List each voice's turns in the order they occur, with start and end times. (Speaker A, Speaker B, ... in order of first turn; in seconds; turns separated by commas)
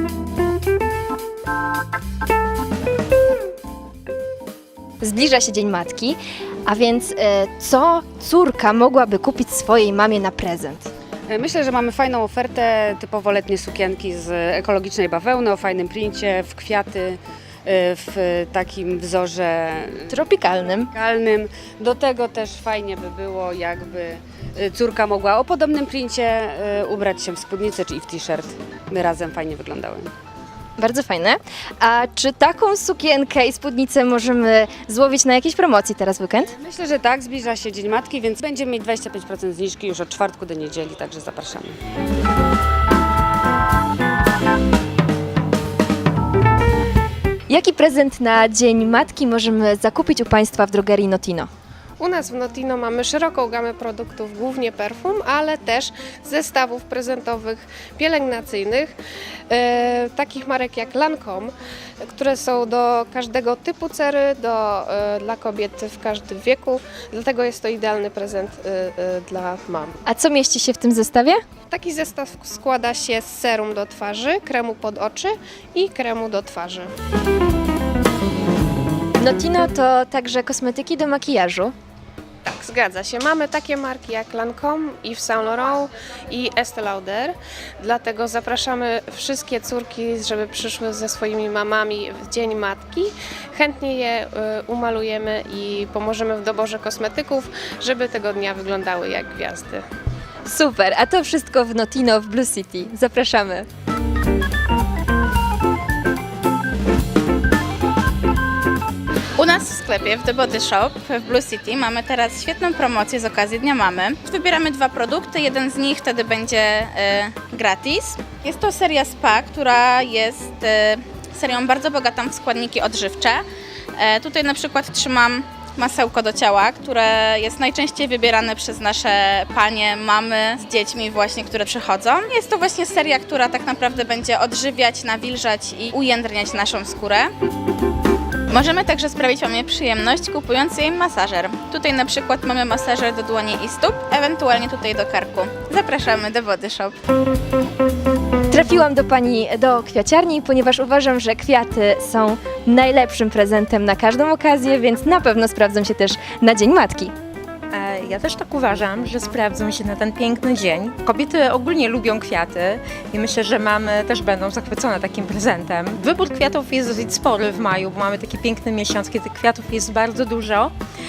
Speaker A: 5.0-10.9, Speaker B: 11.3-20.1, Speaker A: 20.1-20.9, Speaker B: 20.9-30.1, Speaker A: 30.8-36.5, Speaker B: 36.5-41.8, Speaker A: 47.5-51.5, Speaker C: 52.0-58.9, Speaker C: 59.5-69.9, Speaker A: 70.1-71.4, Speaker C: 71.7-76.9, Speaker A: 79.2-81.7, Speaker C: 82.5-99.8, Speaker A: 100.5-103.7, Speaker D: 109.4-123.4, Speaker D: 124.0-137.3, Speaker D: 138.5-147.0, Speaker A: 148.5-157.1, Speaker E: 157.7-170.7